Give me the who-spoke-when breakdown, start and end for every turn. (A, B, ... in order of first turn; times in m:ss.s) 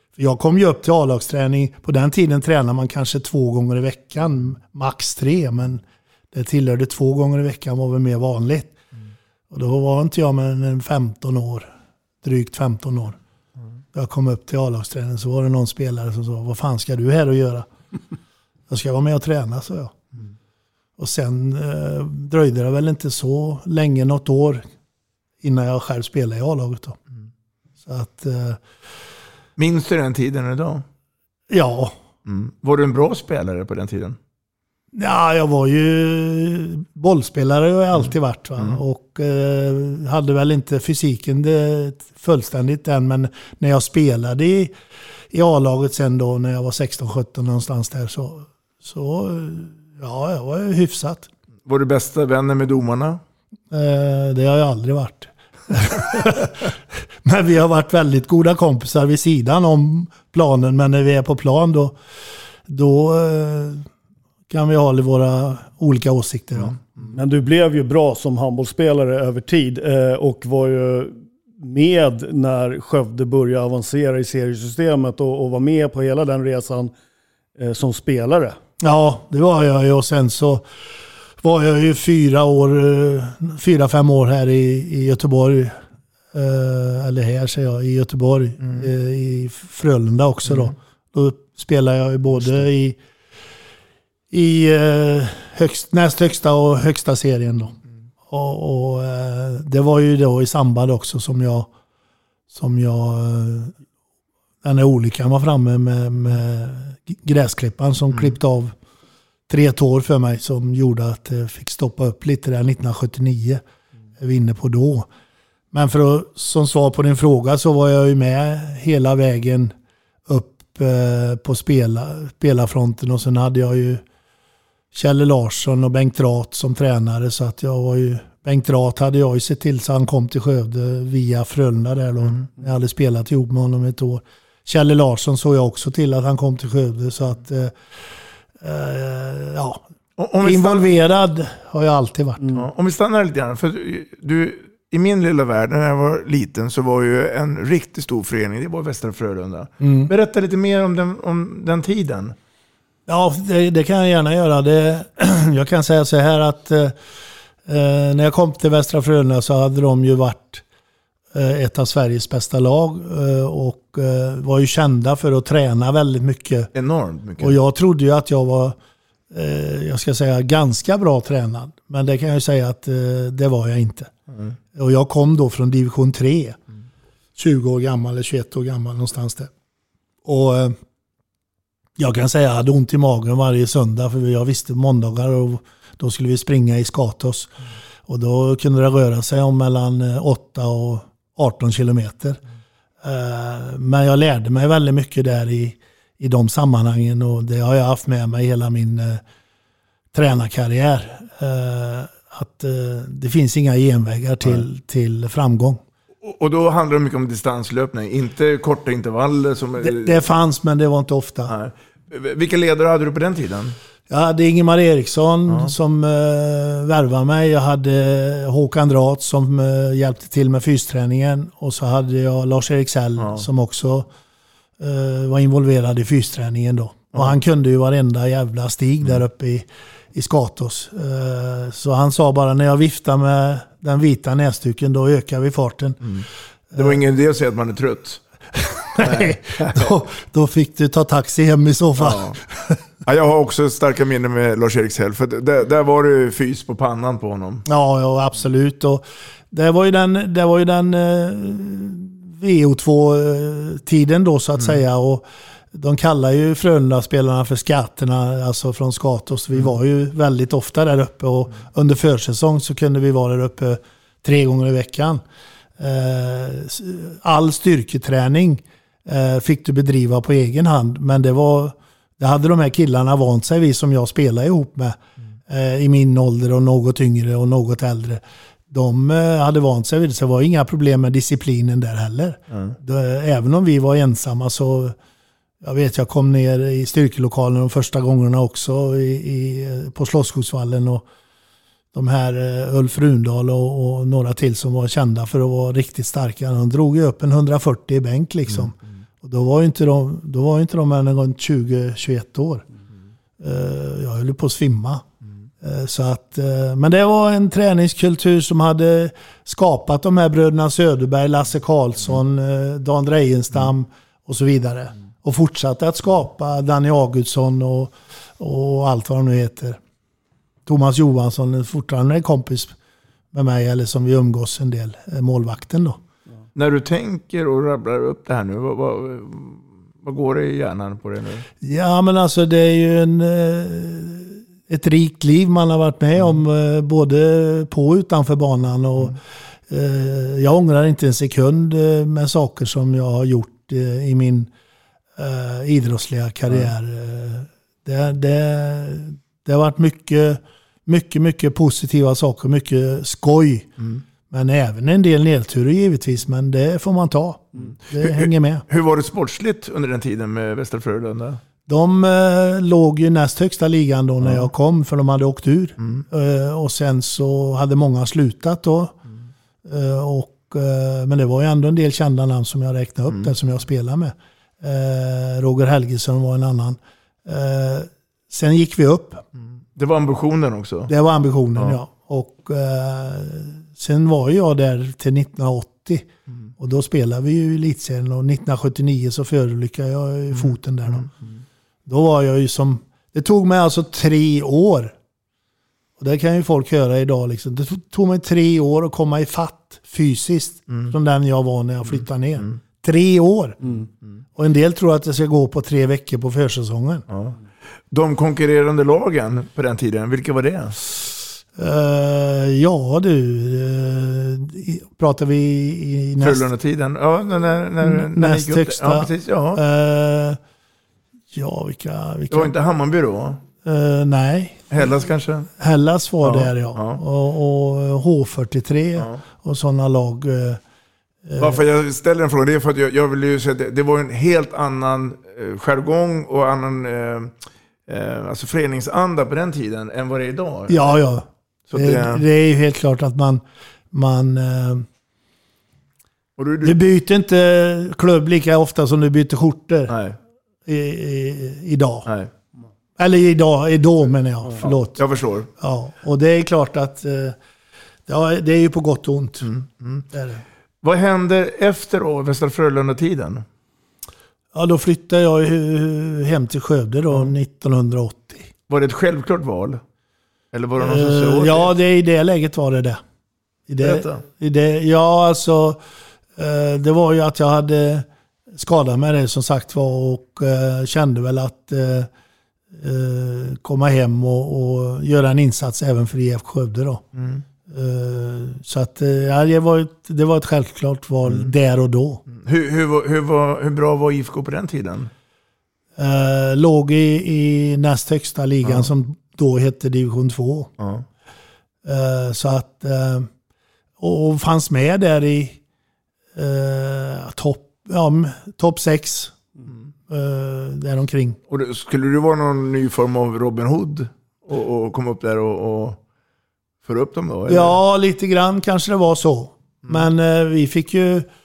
0:00.2-0:08.8 A
0:09.5-0:11.7 A
0:12.2-0:13.2 A
0:13.9-0:17.7 A
0:18.7-0:20.0 A
0:21.0-0:24.6 A
0:25.4-0:27.0 A
0:27.8-0:28.6 A
0:29.6-0:30.8 B
0:31.5-0:32.0 A
0:32.3-0:34.2 B
0:34.9-0:44.7 A
0:45.3-0:51.3 A
0:51.7-0:53.2 B
0:53.7-1:02.0 A
1:02.7-1:03.9 A
1:04.5-1:06.8 A
1:07.1-1:16.9 C
1:17.6-1:18.6 C
1:18.8-1:20.6 A
1:21.4-1:25.8 A
1:26.3-1:33.0 A
1:28.6-1:28.9 B
1:34.3-1:37.8 A
1:38.3-1:41.7 A
1:42.5-1:43.8 A
1:44.6-1:48.8 A
1:49.5-1:53.6 A
1:54.2-1:55.1 A
1:55.7-1:59.7 A
2:00.3-2:04.0 A
2:04.9-2:17.8 A
2:18.6-2:19.8 A
2:20.2-2:20.9 B
2:20.4-2:22.5 A
2:22.5-2:32.4 B
2:29.8-2:30.1 A
2:33.1-2:37.0 A
2:37.6-2:40.6 A
2:41.3-2:46.7 A
2:46.7-2:47.6 B
2:47.4-2:48.8 A
2:49.3-2:54.1 A
2:54.7-2:56.6 A
2:57.4-2:59.5 A
3:00.2-3:00.8 A
3:02.0-3:07.5 A
3:08.1-3:12.4 A
3:13.0-3:19.2 A
3:20.1-3:25.8 A
3:26.2-3:30.2 B
3:29.8-3:31.6 A
3:31.5-3:33.8 B
3:34.1-3:44.1 A
3:43.2-3:43.4 B
3:44.8-3:56.1 A
3:56.0-3:58.2 B
3:56.7-3:57.0 A
3:58.6-4:02.8 A
3:59.0-4:00.0 B
4:02.0-4:02.4 B
4:03.1-4:07.6 B
4:07.7-4:25.2 A
4:25.8-4:45.0 A
4:45.6-4:51.0 A
4:51.9-5:02.7 A
5:03.4-5:05.0 A
5:05.6-5:19.8 A
5:20.7-5:22.8 A
5:23.3-5:26.0 A
5:26.6-5:31.5 B
5:31.6-5:39.2 A
5:39.7-5:44.5 A
5:45.2-5:53.7 A
5:54.3-5:58.6 A
5:57.6-6:01.4 B
6:01.7-6:09.0 A
6:05.8-6:06.0 B
6:09.6-6:19.2 A
6:19.8-6:20.9 B
6:20.9-6:26.1 A
6:26.6-6:31.1 A
6:30.9-6:31.3 B
6:31.9-6:35.0 A
6:36.0-6:43.7 A
6:44.4-6:47.1 A
6:47.1-6:47.4 B
6:47.9-6:50.8 B
6:51.6-6:56.5 A
6:56.2-6:59.6 B
6:57.8-7:00.4 A
7:01.3-7:02.5 A
7:02.3-7:03.4 B
7:03.6-7:04.8 A
7:04.7-7:05.5 B
7:05.6-7:10.6 A
7:06.2-7:07.0 B
7:11.3-7:11.6 A
7:11.4-7:17.3 B
7:17.9-7:21.0 B
7:20.7-7:24.9 A
7:21.7-7:22.2 B
7:26.4-7:26.8 B
7:26.6-7:30.0 A
7:29.9-7:30.2 B
7:30.7-7:32.1 A
7:33.0-7:35.0 A
7:34.6-7:35.5 B
7:35.6-7:37.4 A
7:38.1-7:39.5 A
7:39.4-7:40.0 B
7:40.1-7:40.4 A
7:40.8-7:43.4 B
7:44.5-7:48.5 A
7:48.7-7:49.8 B
7:50.5-7:51.7 B
7:50.8-7:53.0 A
7:53.7-7:55.8 A
7:53.8-7:54.2 B
7:56.4-8:02.1 A
8:02.7-8:07.0 A
8:07.2-8:07.4 B
8:07.7-8:12.2 A
8:12.3-8:15.1 B
8:16.0-8:20.7 A
8:20.8-8:21.0 B
8:21.8-8:23.3 A
8:24.0-8:25.6 A
8:26.4-8:29.4 A
8:30.1-8:31.4 A
8:31.5-8:36.0 B
8:36.8-8:37.8 B
8:37.5-8:41.3 A